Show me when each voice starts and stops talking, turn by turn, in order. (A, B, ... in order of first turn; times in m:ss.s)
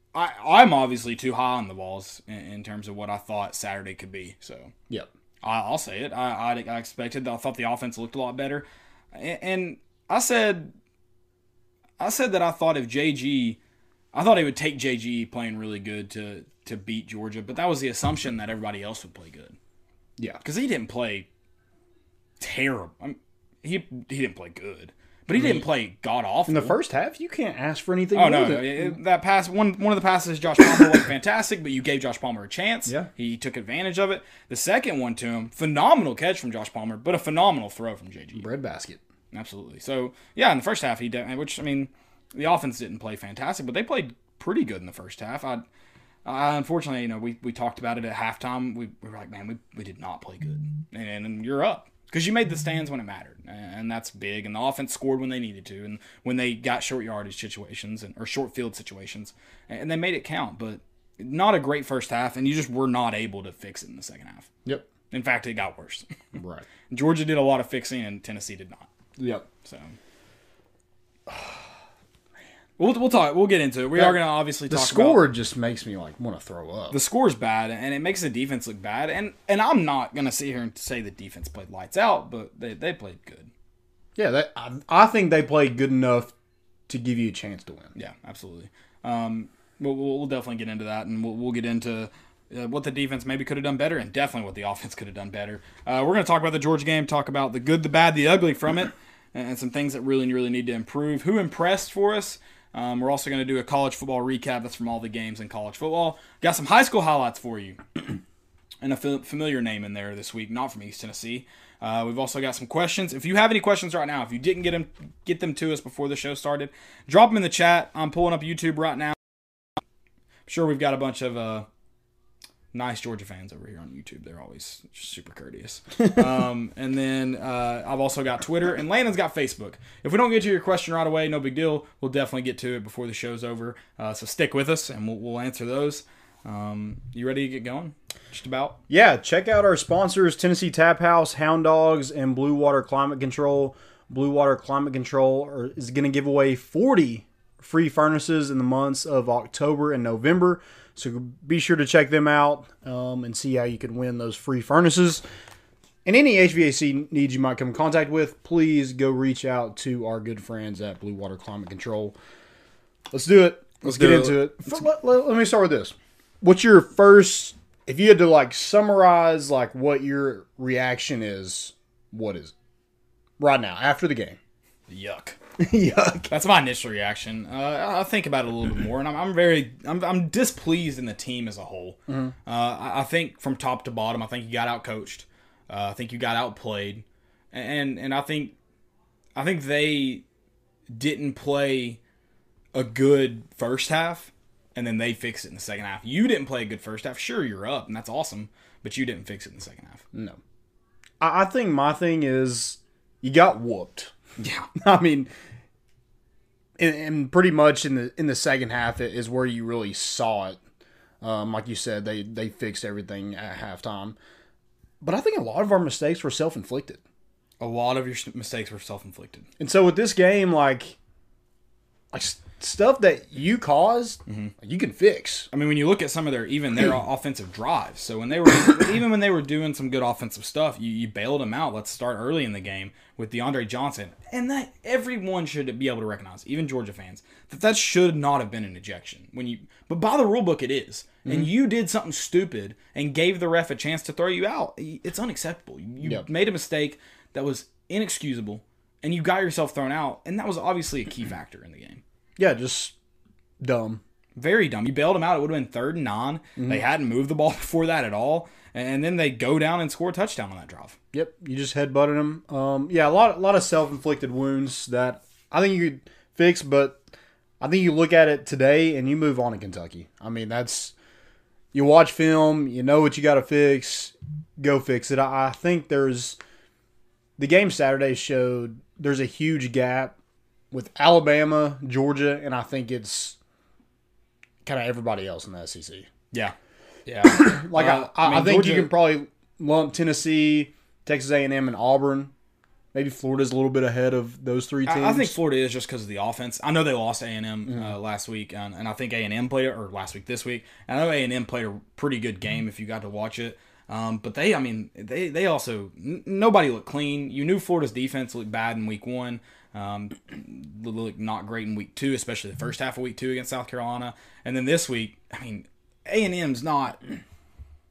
0:00.1-0:04.7 A
0:05.4-0:10.7 A
0:12.0-0:13.6 A
0:14.1-0:19.6 A
0:20.4-0:21.3 A
0:22.4-0:26.8 A
0:25.3-0:25.7 B
0:26.5-0:29.0 B
0:28.1-0:38.5 A
0:38.3-0:39.0 B
0:39.3-0:45.6 A
0:46.2-1:04.5 A
1:05.1-1:06.1 A
1:06.4-1:06.6 B
1:06.9-1:08.9 A
1:09.2-1:09.5 B
1:09.6-1:10.0 A
1:11.3-1:11.6 B
1:12.8-1:15.3 A
1:13.9-1:17.0 B
1:16.9-1:23.5 A
1:24.2-1:26.3 B
1:26.9-1:27.9 B
1:28.0-1:47.8 A
1:48.8-1:59.2 A
2:00.5-2:01.7 A
2:02.7-2:18.8 A
2:18.9-2:35.2 B
2:36.0-2:42.2 B
2:43.1-2:52.5 B
2:43.8-2:44.8 A
2:53.4-2:54.4 B
2:54.9-2:55.4 A
2:55.6-2:56.3 B
2:56.3-3:08.6 A
3:02.1-3:02.3 B
3:09.4-3:10.2 A
3:10.9-3:12.0 A
3:12.7-3:20.0 A
3:20.1-3:20.4 B
3:21.2-3:24.1 B
3:24.4-3:24.7 A
3:24.8-3:25.3 B
3:26.8-3:30.6 B
3:31.2-3:34.2 B
3:35.0-3:37.0 B
3:37.6-3:39.5 A
3:39.6-3:41.0 B
3:42.1-3:45.5 B
3:44.3-3:44.5 A
3:45.5-4:12.0 A
4:12.4-4:13.0 B
4:13.6-4:14.0 B
4:14.4-4:21.0 A
4:16.6-4:16.8 B
4:21.1-4:27.0 B
4:27.6-4:30.9 B
4:31.7-4:36.4 B
4:37.4-4:40.2 B
4:40.7-4:43.4 B
4:44.6-4:46.1 B
4:47.1-4:48.9 A
4:47.3-4:52.3 B
4:52.9-4:55.4 B
4:54.9-5:17.0 A